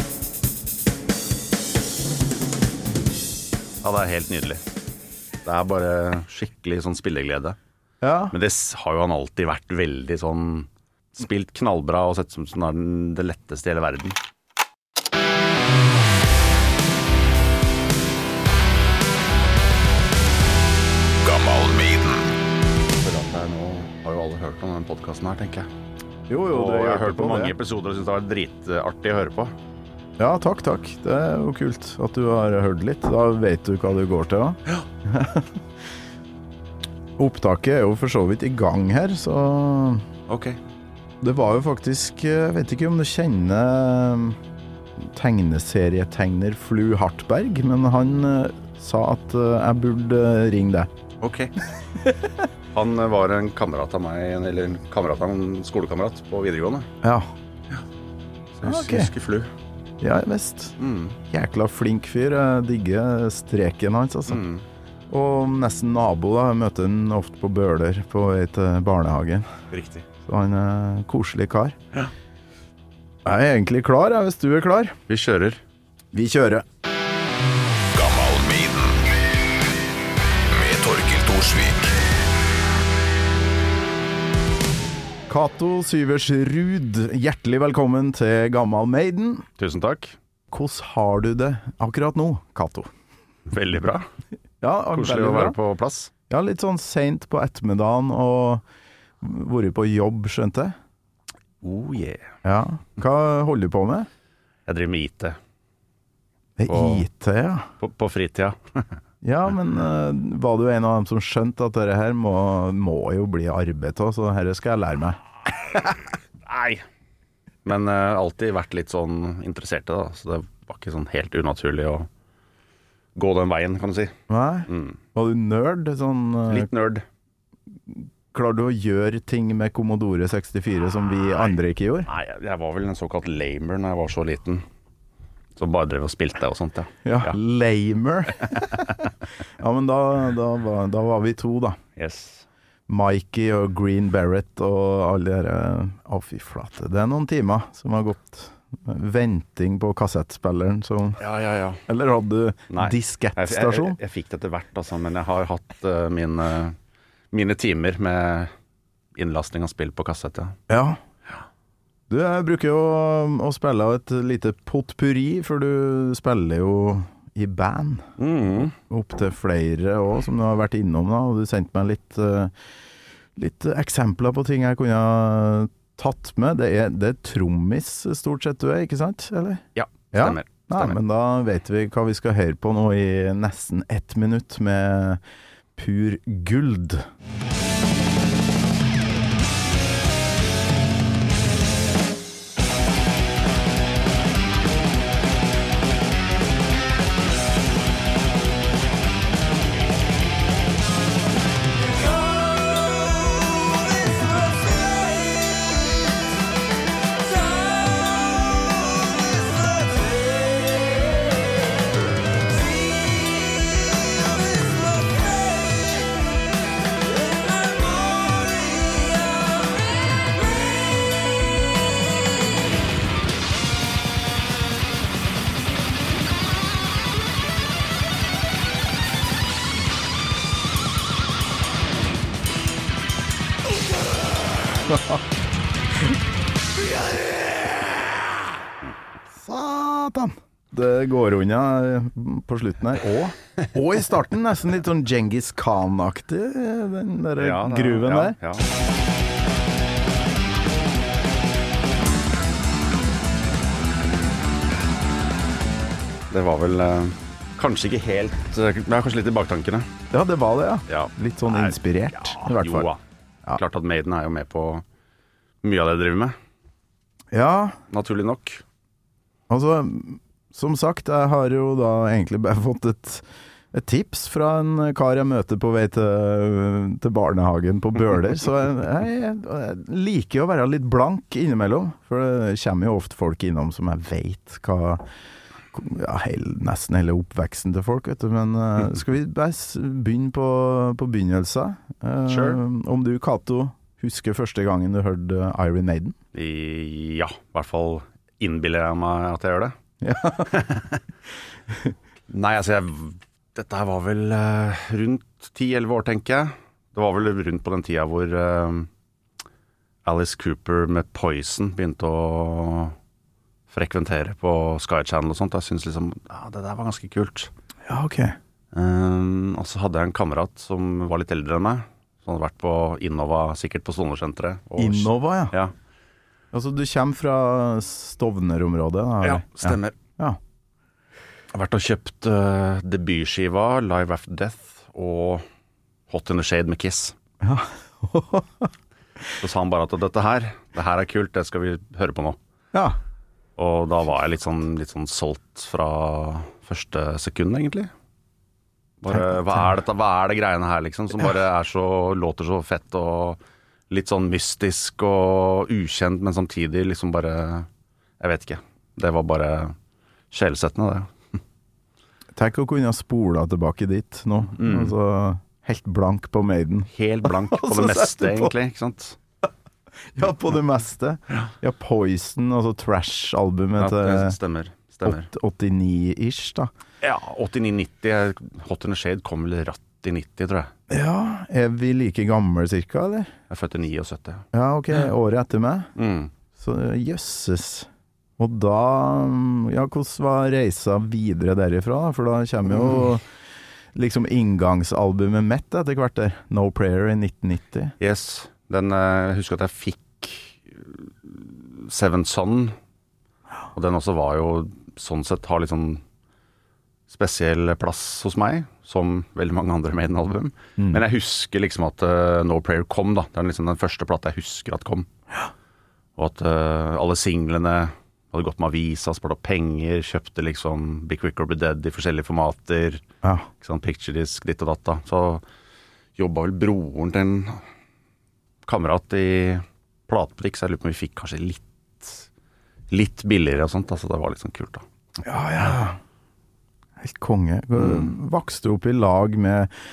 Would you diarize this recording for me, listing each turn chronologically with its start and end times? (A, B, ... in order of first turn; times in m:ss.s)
0:03.8-0:04.6 A
0:05.4-0:07.6 A
0:08.0-0:08.3 B
0:08.3-0:14.2 A
0:21.2-0:22.3 C
0:23.0-0:25.7 A
0:26.3-0:27.6 B
0:26.5-0:29.5 A
0:30.2-0:35.6 B
0:37.2-0:40.1 B
0:40.3-0:40.6 A
0:41.2-0:44.4 B
0:45.0-0:50.9 B
0:51.2-0:51.5 A
0:52.0-0:52.3 B
0:52.7-0:56.9 A
0:57.0-0:57.3 B
0:58.5-0:59.5 A
0:58.6-0:59.1 B
1:00.0-1:00.8 B
1:00.8-1:01.2 A
1:01.3-1:04.4 B
1:04.3-1:04.6 A
1:05.1-1:09.5 B
1:09.7-1:10.0 A
1:10.2-1:11.8 B
1:13.2-1:15.0 B
1:15.1-1:15.6 A
1:16.1-1:16.6 B
1:17.9-1:19.0 C
1:20.5-1:21.9 C
1:25.3-1:29.5 B
1:29.6-1:30.2 A
1:30.5-1:32.9 B
1:33.5-1:34.0 A
1:34.6-1:35.6 B
1:34.9-1:36.1 A
1:36.3-1:38.6 B
1:39.2-1:40.8 B
1:41.6-1:42.3 A
1:42.4-1:44.1 B
1:44.7-1:45.4 A
1:46.6-1:47.7 B
1:46.7-1:47.0 A
1:47.8-1:49.0 A
1:49.2-1:55.2 B
1:55.8-1:56.8 A
1:57.6-2:02.1 A
2:03.1-2:05.0 A
2:04.3-2:06.7 B
2:06.5-2:07.0 A
2:07.9-2:12.1 B
2:12.0-2:14.6 A
2:15.6-2:17.4 A
2:17.0-2:19.0 B
2:19.6-2:21.8 B
2:22.0-2:22.4 A
2:22.9-2:31.2 B
2:31.2-2:31.8 A
2:31.9-2:34.0 B
2:32.7-2:36.8 A
2:37.3-2:38.5 A
2:39.1-2:40.6 A
2:40.7-2:41.0 B
2:42.1-2:48.1 B
2:48.2-2:48.7 A
2:48.7-2:52.5 B
2:53.4-3:05.2 B
2:59.7-3:01.0 A
3:05.7-3:07.0 B
3:54.8-3:55.2 B
3:56.8-3:58.4 B
3:59.3-4:08.4 B
4:07.4-4:08.7 A
4:16.3-4:19.9 A
4:20.1-4:22.9 B
4:20.9-4:23.0 A
4:23.5-4:24.8 A
4:25.6-4:26.4 A
4:27.3-4:27.8 B
4:27.9-4:28.6 A
4:29.5-4:45.0 B
4:45.7-4:56.2 B
4:52.3-4:52.6 A
4:56.3-4:59.8 A
5:00.0-5:00.6 B
5:00.5-5:01.0 A
5:02.3-5:08.9 A
5:10.0-5:12.9 A
5:13.7-5:17.5 A
5:17.8-5:18.4 B
5:18.7-5:25.7 A
5:24.8-5:25.5 B
5:26.5-5:30.4 B
5:29.2-5:30.0 A
5:31.5-5:35.4 A
5:36.1-5:37.1 A
5:37.4-5:38.7 B
5:39.4-5:42.4 A
5:43.6-5:47.9 A
5:49.0-5:57.7 A
5:49.1-5:49.7 B
5:58.2-5:59.8 A
6:00.3-6:01.1 A
6:02.4-6:08.5 B
6:04.5-6:04.9 A
6:06.9-6:09.2 A
6:10.1-6:14.4 B
6:13.8-6:15.3 A
6:15.0-6:16.7 B
6:17.0-6:20.7 A
6:20.9-6:23.3 B
6:23.5-6:24.4 A
6:24.5-6:25.9 B
6:26.0-6:26.3 A
6:26.5-6:33.2 B
6:33.9-6:37.9 B
6:38.0-6:42.8 A
6:43.7-6:46.0 A
6:47.1-6:55.1 A
6:56.2-7:03.0 A
7:03.6-7:05.4 A
7:06.2-7:07.6 A
7:08.6-7:12.3 A
7:12.9-7:14.8 A
7:15.2-7:16.0 B
7:17.0-7:19.7 B
7:17.8-7:18.1 A